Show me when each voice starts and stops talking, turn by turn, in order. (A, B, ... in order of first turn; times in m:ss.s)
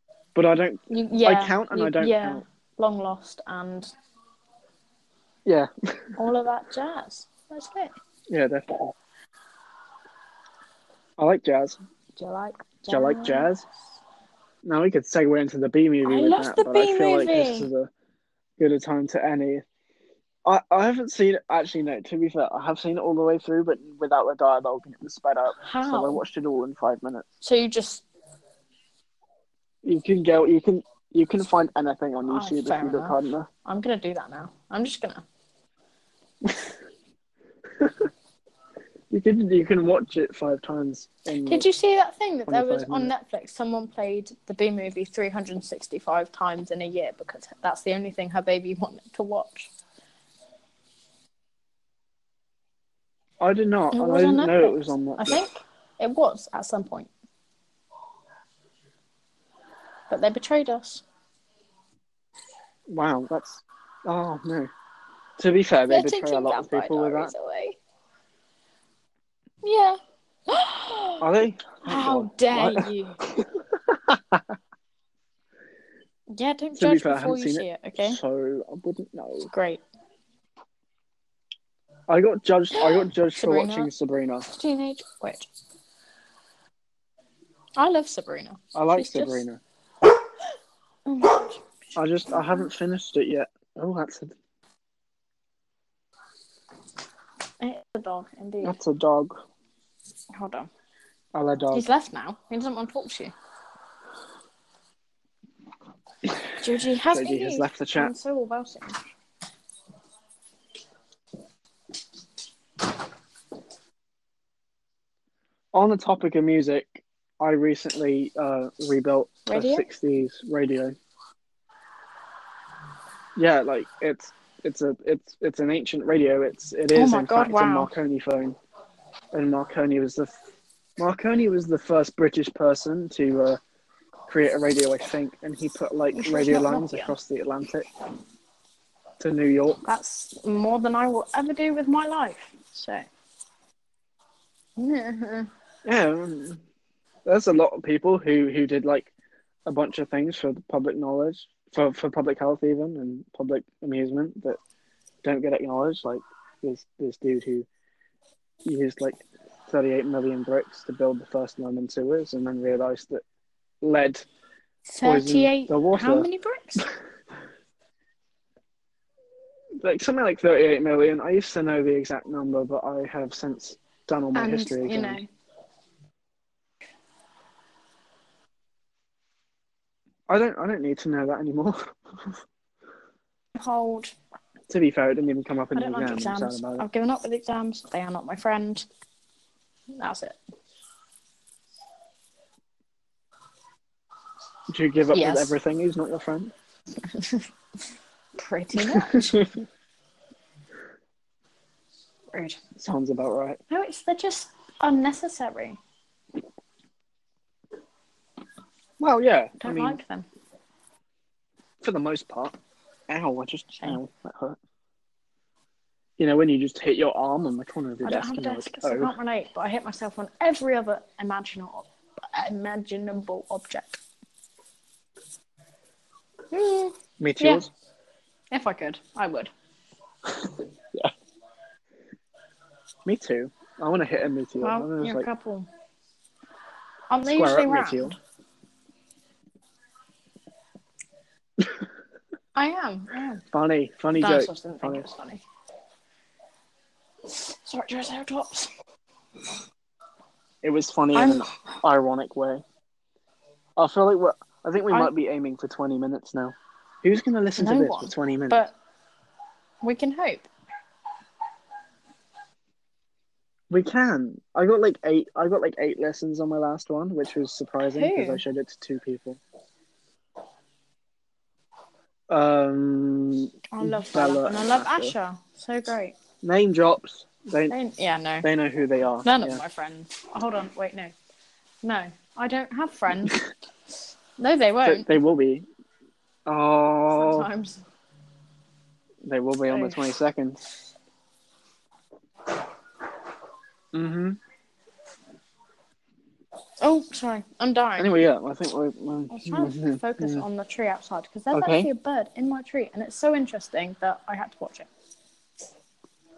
0:00.3-0:02.4 A
0:00.9-0:03.9 B
0:05.4-0:06.2 A
0:06.2-0:07.9 B
0:08.3-0:08.9 A
0:11.2-0:11.8 A
0:12.2-0:13.5 B
0:12.9-0:13.6 A
0:14.6-0:17.9 A
0:16.0-0:17.7 B
0:18.6-0:19.6 A
0:20.4-0:27.2 A
0:25.6-0:26.2 B
0:27.4-0:28.0 B
0:29.8-0:33.5 A
0:32.3-0:35.2 B
0:36.4-0:36.7 A
0:37.8-0:38.1 A
0:39.1-0:41.7 A
0:41.4-0:49.7 B
0:42.5-0:43.1 A
0:53.4-0:55.4 A
0:53.9-0:57.1 B
1:00.1-1:01.0 B
1:02.9-1:04.7 A
1:05.4-1:07.3 A
1:05.9-1:07.8 B
1:09.6-1:11.2 B
1:11.2-1:14.4 A
1:11.8-1:13.2 B
1:16.3-1:18.2 B
1:16.7-1:19.5 A
1:19.4-1:19.8 B
1:22.1-1:24.5 A
1:22.7-1:23.9 B
1:24.5-1:25.5 B
1:27.8-1:29.4 B
1:28.7-1:29.6 A
1:31.0-1:31.6 B
1:32.0-1:34.3 A
1:32.3-1:32.6 B
1:37.6-1:38.8 B
1:38.6-1:39.4 A
1:40.3-1:40.7 B
1:41.3-1:41.8 A
1:41.7-1:43.3 B
1:46.6-1:49.0 B
1:47.1-1:48.1 A
1:55.7-2:01.0 A
1:59.5-1:59.9 B
2:03.4-2:08.6 A
2:06.9-2:07.9 B
2:09.3-2:10.3 A
2:11.0-2:13.6 A
2:14.3-2:17.9 A
2:16.1-2:17.1 B
2:19.2-2:19.8 A
2:19.8-2:23.0 B
2:24.8-2:25.5 B
2:25.8-2:26.6 A
2:27.2-2:29.1 A
2:29.6-2:34.6 A
2:35.2-2:37.7 A
2:38.6-2:43.2 A
2:43.8-2:44.2 A
2:44.8-2:46.9 B
2:45.0-2:46.3 A
2:49.8-2:55.2 A
2:54.3-2:55.3 B
3:00.3-3:02.3 A
3:03.6-3:04.1 B
3:04.7-3:06.8 A
3:05.7-3:08.8 B
3:09.9-3:10.4 B
3:14.7-3:16.5 A
3:15.1-3:15.6 B
3:17.1-3:17.4 B
3:18.4-3:19.4 B
3:18.8-3:19.4 A
3:22.3-3:22.6 B
3:22.8-3:23.6 A
3:23.7-3:25.8 B
3:29.0-3:30.0 A
3:29.6-3:30.3 B
3:31.8-3:32.6 A
3:33.1-3:34.6 A
3:36.2-3:39.2 A
3:38.0-3:44.0 B
3:46.5-3:47.7 B
3:47.2-3:47.7 A
3:48.5-3:49.5 B
3:53.0-3:55.3 A
3:54.6-3:55.7 B
3:57.1-3:58.2 B
3:57.3-3:58.2 A
4:02.5-4:03.4 B
4:03.5-4:05.1 A
4:04.1-4:05.4 B
4:07.3-4:08.7 B
4:10.6-4:12.6 A
4:11.1-4:11.5 B
4:13.8-4:18.7 A
4:17.6-4:18.7 B
4:19.8-4:20.5 B
4:23.7-4:29.4 A
4:27.8-4:28.4 B
4:32.3-4:35.1 A
4:33.7-4:36.2 B
4:36.4-4:37.8 A
4:37.7-4:38.5 B
4:38.4-4:39.6 A
4:39.2-4:41.1 B
4:41.8-4:43.4 B
4:44.4-4:45.1 B
4:44.8-4:45.7 A
4:46.4-4:47.5 A
4:47.1-4:47.8 B
4:49.2-4:50.6 A
4:49.7-4:50.1 B
4:53.9-4:54.4 A
4:56.8-4:58.2 B
4:58.0-5:00.4 A
4:59.3-5:04.9 B
5:01.5-5:01.9 A